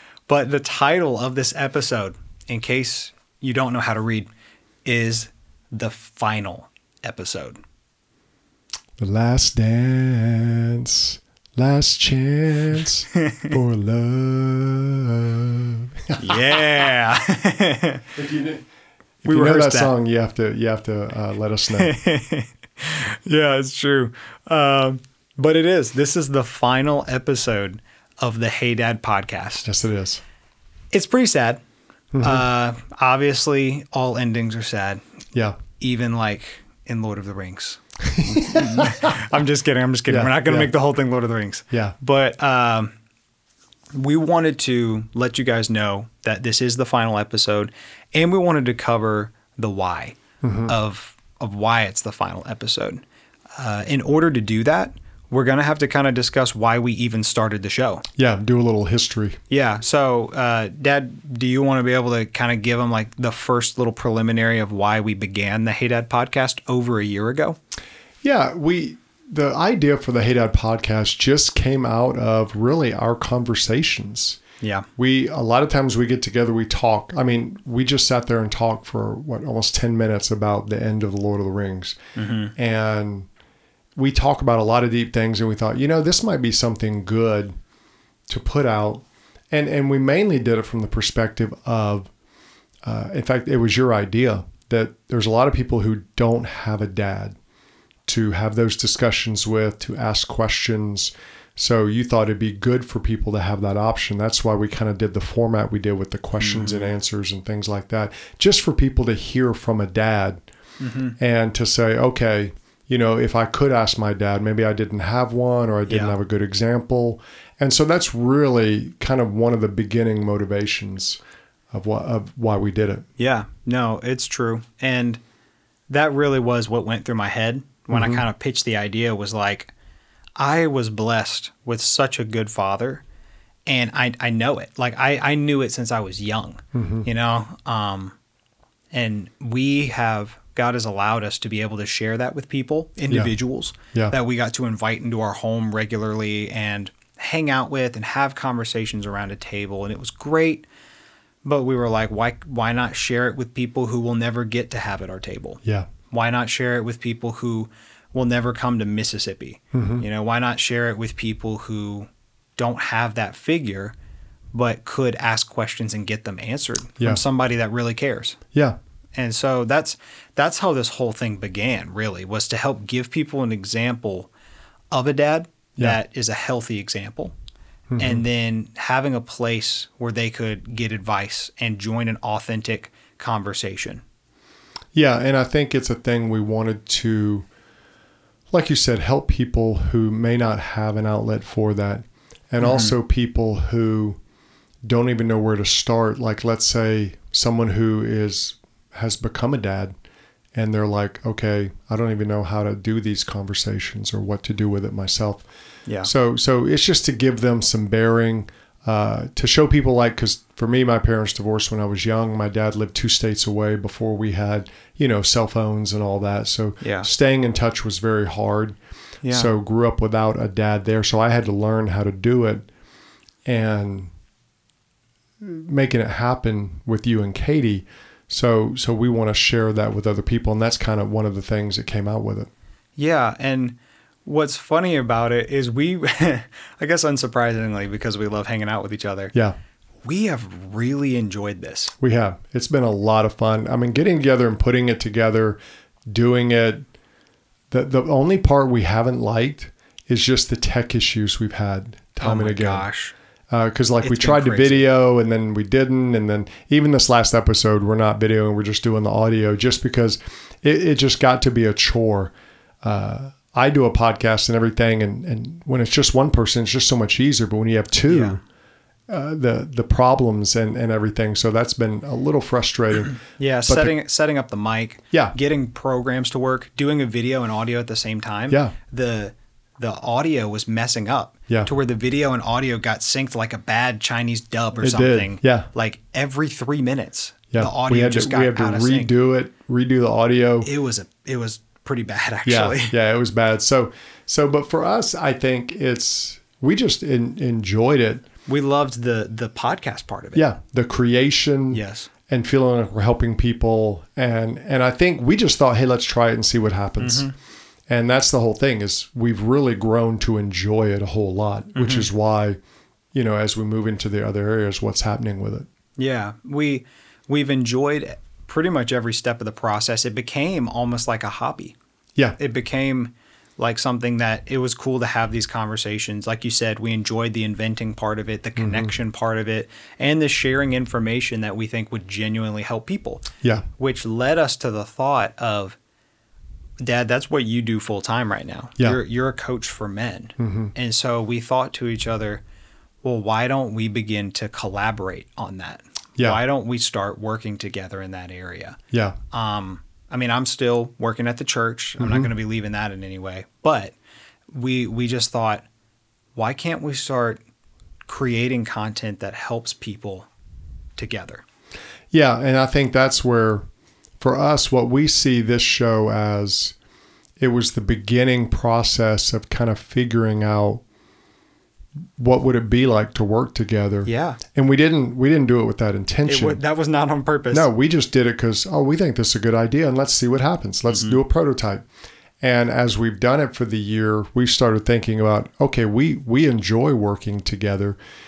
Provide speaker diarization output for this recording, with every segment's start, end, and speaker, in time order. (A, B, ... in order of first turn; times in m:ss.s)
0:00.3-0:04.3 A
0:04.8-0:07.6 A
0:09.0-0:16.6 B
0:13.1-0:13.5 A
0:16.2-0:18.0 A
0:18.1-0:18.6 B
0:19.2-0:21.9 B
0:19.2-0:19.9 A
0:21.8-0:29.7 A
0:29.6-0:30.2 B
0:30.9-0:31.6 A
0:32.1-0:32.4 B
0:32.2-0:35.0 A
0:35.3-0:35.6 B
0:35.8-0:42.9 A
0:38.0-0:39.1 B
0:40.1-0:40.7 B
0:43.9-0:53.0 A
0:50.4-0:50.8 B
0:53.6-0:58.0 A
0:58.2-0:59.4 B
0:59.5-1:07.6 A
1:08.2-1:14.4 B
1:14.6-1:14.9 A
1:15.0-1:22.0 B
1:22.2-1:22.5 A
1:22.5-1:23.3 B
1:24.0-1:27.5 B
1:28.3-1:32.1 B
1:32.8-1:37.4 B
1:38.1-1:50.4 B
1:46.4-1:46.9 A
1:50.8-1:51.2 A
1:51.2-2:01.2 B
1:55.9-1:56.2 A
2:01.7-2:03.0 B
2:03.2-2:05.2 A
2:05.9-2:09.7 A
2:07.9-2:08.2 B
2:10.4-2:13.0 A
2:13.6-2:18.1 A
2:16.7-2:17.1 B
2:18.9-2:30.6 A
2:23.1-2:23.3 B
2:31.4-2:43.9 A
2:35.6-2:35.9 B
2:39.7-2:40.0 B
2:44.5-2:48.4 A
2:49.1-2:54.3 A
2:54.9-2:57.3 A
2:57.9-2:58.2 B
2:58.0-3:04.0 A
3:04.9-3:07.5 B
3:08.5-3:14.2 B
3:12.6-3:12.9 A
3:14.8-3:19.9 B
3:20.5-3:25.4 B
3:26.0-3:38.8 B
3:36.8-3:37.1 A
3:39.2-3:39.5 A
3:39.3-3:42.7 B
3:43.4-3:44.1 B
3:45.4-3:52.5 B
3:53.0-3:59.3 A
4:00.0-4:01.9 A
4:02.0-4:06.8 B
4:07.7-4:12.8 B
4:12.2-4:13.1 A
4:13.5-4:28.4 B
4:14.0-4:14.9 A
4:28.1-4:28.4 A
4:29.1-4:33.9 B
4:33.4-4:49.1 A
4:38.5-4:38.7 B
4:44.8-4:45.7 B
4:47.5-4:50.7 B
4:50.6-4:52.9 A
4:52.4-4:58.2 B
4:58.5-5:00.4 A
5:00.3-5:07.3 B
5:01.7-5:02.1 A
5:07.0-5:07.3 A
5:07.9-5:12.6 B
5:11.7-5:12.1 A
5:13.1-5:15.7 B
5:16.0-5:21.8 A
5:22.4-5:33.2 A
5:28.6-5:28.9 B
5:33.8-5:35.8 A
5:36.8-5:42.4 A
5:40.4-5:40.7 B
5:43.0-5:48.8 A
5:48.9-5:49.2 B
5:49.3-5:53.9 A
5:52.0-5:52.3 B
5:54.5-5:55.6 A
5:56.3-5:57.4 A
5:58.1-6:00.3 A
6:01.0-6:01.4 A
6:02.1-6:03.6 B
6:04.2-6:06.7 B
6:07.4-6:10.8 B
6:12.2-6:16.6 B
6:14.0-6:14.4 A
6:16.2-6:17.7 A
6:17.5-6:21.8 B
6:20.9-6:21.2 A
6:22.4-6:28.0 B